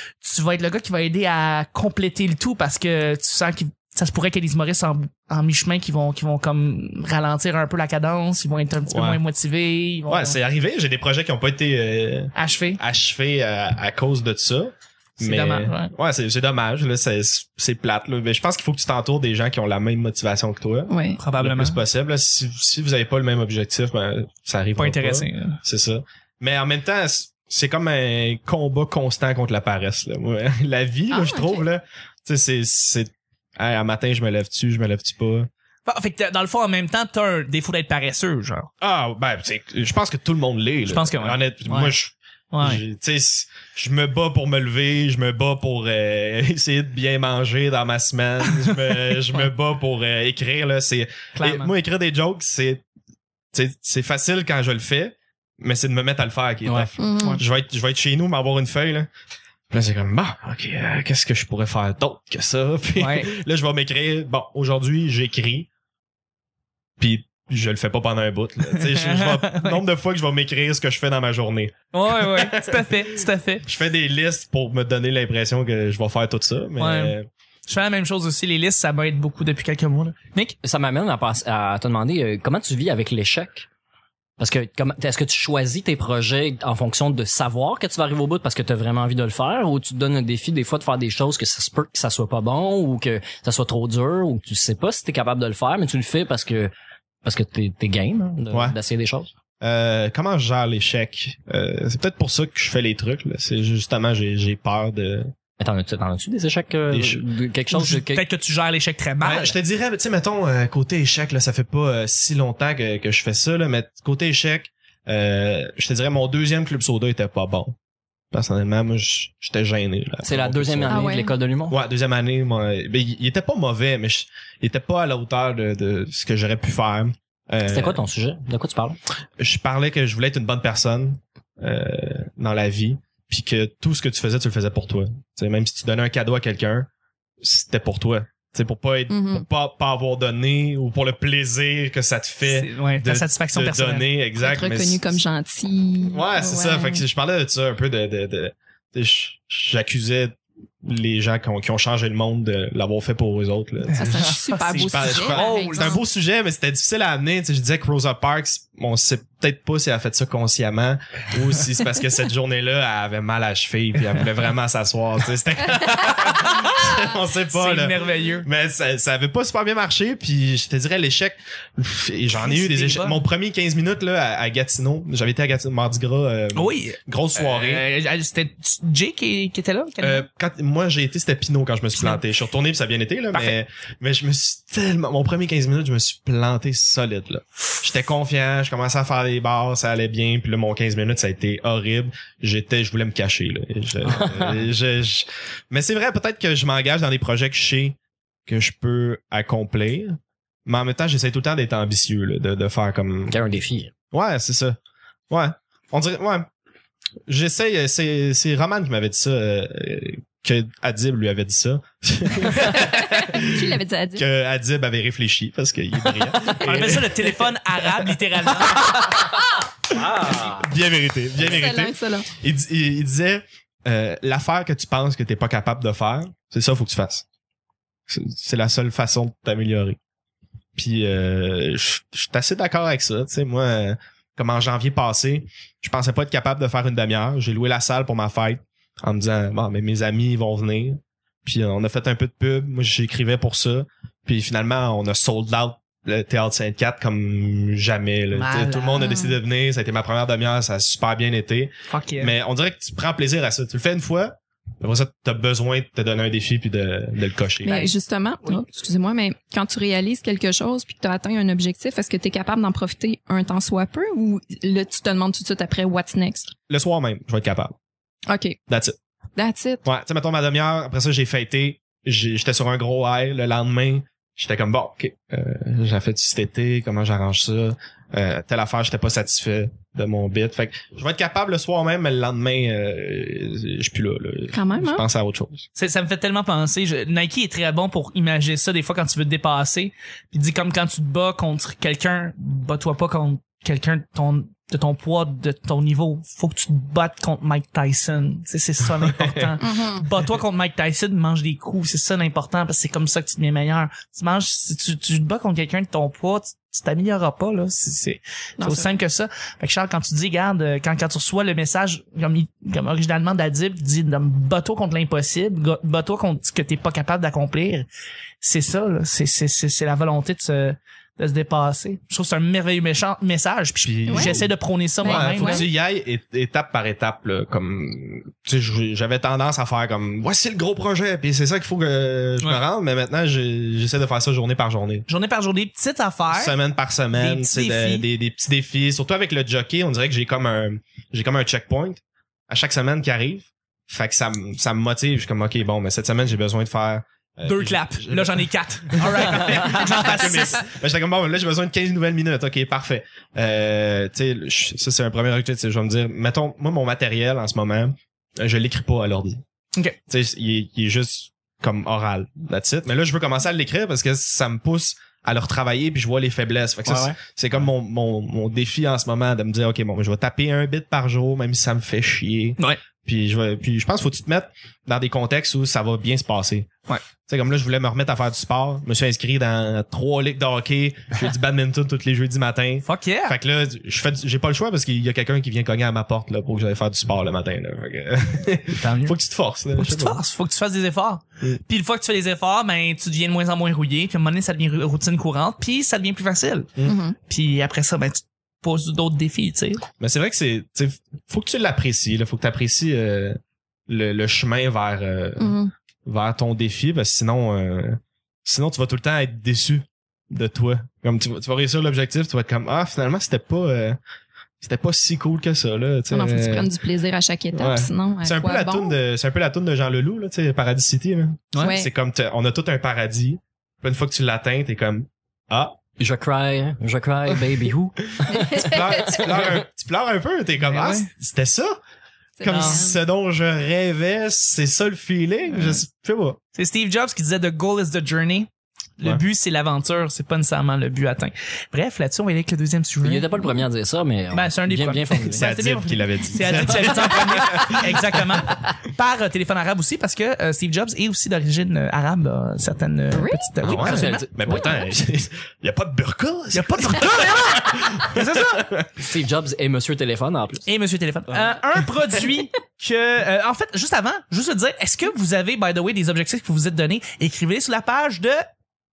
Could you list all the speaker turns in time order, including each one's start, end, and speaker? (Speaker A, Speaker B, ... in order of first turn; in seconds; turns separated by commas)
Speaker A: 0.2-10.4, Speaker B: 8.9-9.2, Speaker B: 10.1-35.5, Speaker A: 12.3-12.8, Speaker A: 15.2-15.9, Speaker C: 20.9-21.2, Speaker A: 21.2-21.8, Speaker A: 24.8-25.6, Speaker C: 31.1-31.6, Speaker A: 35.9-38.7, Speaker B: 38.8-52.8, Speaker A: 40.9-42.0, Speaker A: 42.5-42.8, Speaker A: 48.7-49.4, Speaker A: 51.4-51.7, Speaker B: 53.5-59.1, Speaker D: 56.6-56.9, Speaker C: 57.0-57.4, Speaker B: 59.7-65.7, Speaker A: 63.0-63.3, Speaker B: 67.0-73.0, Speaker A: 68.7-69.8, Speaker A: 71.9-73.6, Speaker B: 73.6-77.3, Speaker A: 76.8-77.2, Speaker A: 77.7-80.5, Speaker D: 80.6-83.7, Speaker D: 84.4-96.7, Speaker D: 97.2-99.3, Speaker B: 98.5-98.8, Speaker B: 99.6-105.3, Speaker D: 105.6-108.2, Speaker B: 106.9-107.2, Speaker A: 107.7-109.6, Speaker B: 109.2-117.7, Speaker B: 118.3-121.0, Speaker D: 120.2-121.8, Speaker C: 120.9-121.3, Speaker B: 121.7-128.0, Speaker D: 127.6-129.0, Speaker B: 129.4-136.9, Speaker B: 137.4-145.2, Speaker C: 139.1-139.4, Speaker A: 142.4-144.1, Speaker C: 144.4-147.0, Speaker B: 146.1-177.8, Speaker A: 153.9-156.0, Speaker C: 154.0-156.0, Speaker A: 166.6-168.4, Speaker A: 172.3-173.2, Speaker A: 176.5-180.2, Speaker B: 180.0-203.4, Speaker A: 181.9-182.2, Speaker D: 194.0-194.7, Speaker D: 203.3-203.9, Speaker B: 204.1-204.8, Speaker B: 205.3-206.5, Speaker B: 207.3-217.4, Speaker C: 213.1-214.2, Speaker A: 216.6-219.2, Speaker B: 218.7-219.3, Speaker D: 219.9-220.7, Speaker B: 220.3-227.2, Speaker C: 221.4-222.3, Speaker B: 228.1-230.0, Speaker B: 230.8-257.8, Speaker A: 248.3-249.0, Speaker C: 248.9-249.4, Speaker A: 251.9-252.3, Speaker C: 257.6-266.5, Speaker A: 257.6-258.6, Speaker B: 266.7-267.7, Speaker C: 268.3-268.6, Speaker B: 268.7-268.9, Speaker C: 269.4-269.8, Speaker B: 269.8-285.6, Speaker C: 284.5-285.1, Speaker A: 285.8-317.9, Speaker B: 299.0-299.6, Speaker C: 299.6-300.1, Speaker C: 308.6-308.9, Speaker A: 318.4-325.7, Speaker B: 323.8-324.5, Speaker C: 324.1-324.4, Speaker C: 325.0-325.7, Speaker B: 325.0-335.1, Speaker A: 335.1-336.6, Speaker B: 336.3-359.4, Speaker A: 337.1-338.1, Speaker A: 347.4-350.6, Speaker B: 360.1-376.7, Speaker D: 366.8-367.2, Speaker B: 377.3-390.2, Speaker A: 382.8-383.3, Speaker A: 388.7-389.1, Speaker A: 389.8-396.7, Speaker C: 396.8-397.2, Speaker A: 397.3-399.8, Speaker B: 400.0-414.0, Speaker C: 405.4-405.7, Speaker B: 414.6-416.7, Speaker C: 416.1-419.0, Speaker B: 417.5-425.8, Speaker C: 421.6-421.9, Speaker D: 426.0-429.5, Speaker C: 428.3-429.2, Speaker B: 428.6-431.8, Speaker A: 430.6-431.1, Speaker C: 432.4-433.0, Speaker B: 432.4-436.4, Speaker A: 432.5-432.8, Speaker A: 435.5-435.8, Speaker A: 436.5-443.5, Speaker D: 443.0-445.5, Speaker A: 444.3-454.2, Speaker B: 445.3-447.8, Speaker D: 446.5-447.7, Speaker C: 453.1-453.5, Speaker B: 453.6-458.9, Speaker D: 453.8-454.8, Speaker A: 456.5-458.6, Speaker D: 459.0-460.6, Speaker A: 460.6-468.4